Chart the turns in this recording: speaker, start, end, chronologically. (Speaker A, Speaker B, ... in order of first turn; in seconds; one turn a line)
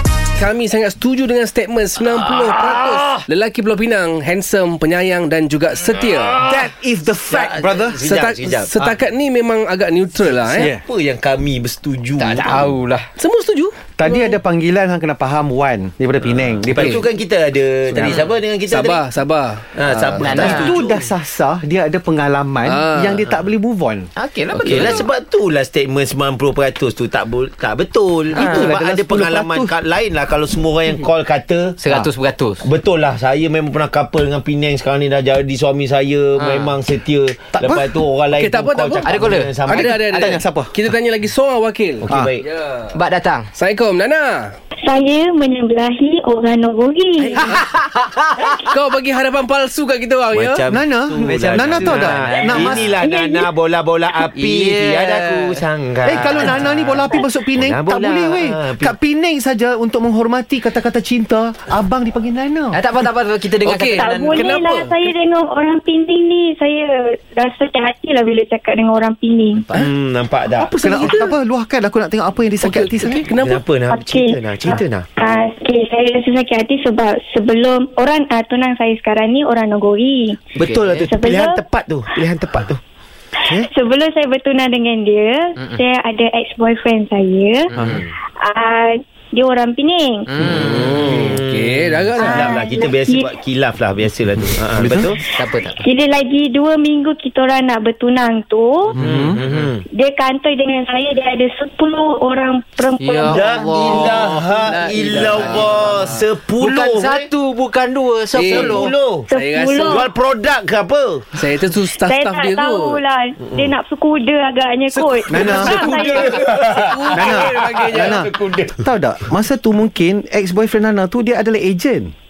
Speaker A: 0.4-6.4
Speaker B: 6.4-8.0
Speaker C: 7.3-8.8
Speaker A: 8.0-10.7
Speaker B: 10.6-10.8
Speaker C: 10.6-12.8
Speaker D: 12.2-13.1
Speaker A: 13.2-14.4
Speaker B: 14.0-17.1
Speaker C: 16.6-19.0
Speaker A: 16.7-17.0
Speaker B: 17.9-18.2
Speaker A: 18.7-20.6
Speaker C: 19.8-21.1
Speaker B: 20.2-24.1
Speaker D: 20.2-20.7
Speaker A: 22.7-23.4
Speaker D: 24.2-25.1
Speaker C: 24.5-32.0
Speaker B: 28.3-29.7
Speaker D: 31.8-32.6
Speaker C: 32.6-40.0
Speaker D: 36.4-36.8
Speaker B: 37.5-37.9
Speaker A: 38.3-42.9
Speaker D: 39.1-39.5
Speaker B: 39.7-40.7
Speaker C: 42.0-42.5
Speaker D: 42.9-43.5
Speaker A: 43.5-44.5
Speaker E: 44.9-47.5
Speaker A: 47.2-47.7
Speaker D: 47.9-48.2
Speaker A: 48.4-50.6
Speaker C: 50.3-59.0
Speaker B: 50.7-53.0
Speaker D: 51.8-52.8
Speaker E: 53.0-53.5
Speaker D: 54.3-55.6
Speaker B: 56.0-62.8
Speaker D: 62.7-64.7
Speaker A: 63.6-65.1
Speaker E: 64.0-69.7
Speaker C: 69.7-70.8
Speaker B: 70.6-73.2
Speaker A: 70.8-71.3
Speaker A: 72.6-73.6
Speaker C: 73.4-75.1
Speaker E: 73.9-80.4
Speaker C: 80.5-82.8
Speaker D: 80.7-81.0
Speaker E: 81.0-81.6
Speaker E: 83.4-87.7
Speaker D: 87.7-88.0
Speaker B: 87.8-88.0
Speaker E: 88.4-90.3
Speaker D: 90.3-90.8
Speaker C: 90.4-95.2
Speaker A: 90.4-92.6
Speaker E: 92.2-93.3
Speaker B: 94.8-95.1
Speaker D: 95.4-95.8
Speaker E: 95.8-99.0
Speaker C: 98.9-99.8
Speaker B: 99.0-99.4
Speaker E: 99.9-103.5
Speaker D: 103.0-108.9
Speaker C: 103.2-107.3
Speaker A: 108.3-110.0
Speaker C: 108.4-109.3
Speaker E: 109.3-110.1
Speaker C: 109.9-111.3
Speaker A: 111.3-113.0
Speaker E: 112.0-116.4
Speaker C: 113.5-113.7
Speaker A: 114.9-118.3
Speaker B: 115.3-115.8
Speaker C: 115.5-118.9
Speaker B: 117.1-122.1